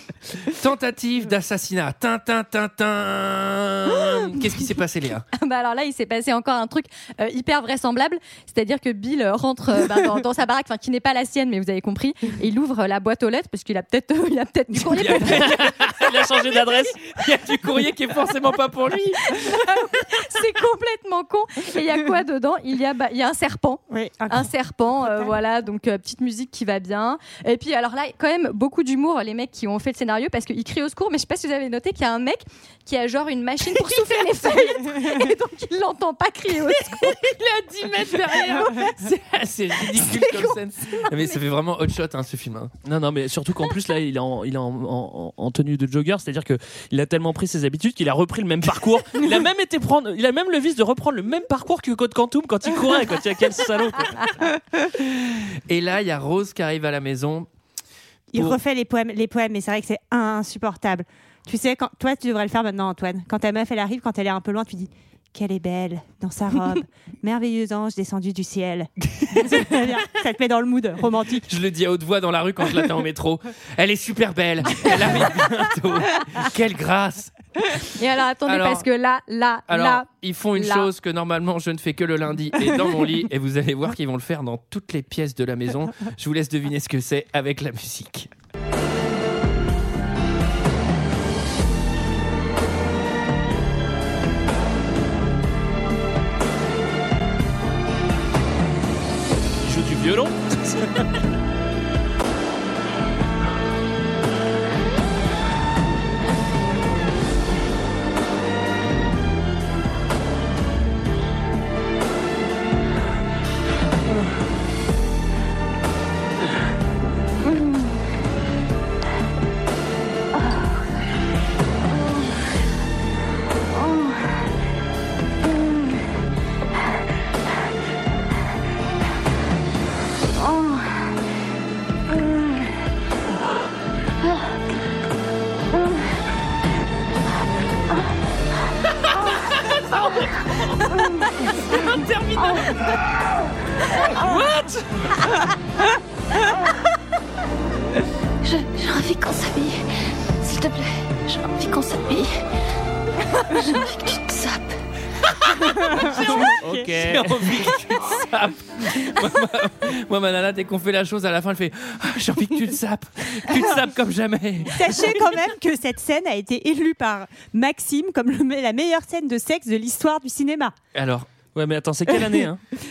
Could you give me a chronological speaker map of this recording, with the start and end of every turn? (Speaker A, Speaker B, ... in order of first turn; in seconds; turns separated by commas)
Speaker A: 0.4-5.2, Speaker B: 5.3-15.7, Speaker A: 14.7-16.4, Speaker C: 15.3-17.0, Speaker A: 17.1-19.6, Speaker B: 19.4-37.2, Speaker D: 23.9-25.3, Speaker D: 34.4-35.2, Speaker A: 36.6-42.7, Speaker C: 42.8-54.4, Speaker A: 55.0-57.5, Speaker D: 58.3-71.5, Speaker A: 58.3-58.6, Speaker A: 69.2-69.6, Speaker A: 71.5-77.8, Speaker B: 77.9-80.9, Speaker A: 78.5-78.8, Speaker A: 79.7-88.3, Speaker C: 99.6-101.0, Speaker A: 139.7-140.3, Speaker A: 141.7-142.8, Speaker C: 144.1-144.8, Speaker E: 148.4-149.8, Speaker E: 150.4-152.3, Speaker E: 153.4-154.8, Speaker A: 155.6-165.1, Speaker D: 155.8-156.9, Speaker C: 156.1-157.4, Speaker D: 164.7-170.8, Speaker A: 170.9-171.3, Speaker C: 171.5-172.6, Speaker D: 172.1-172.4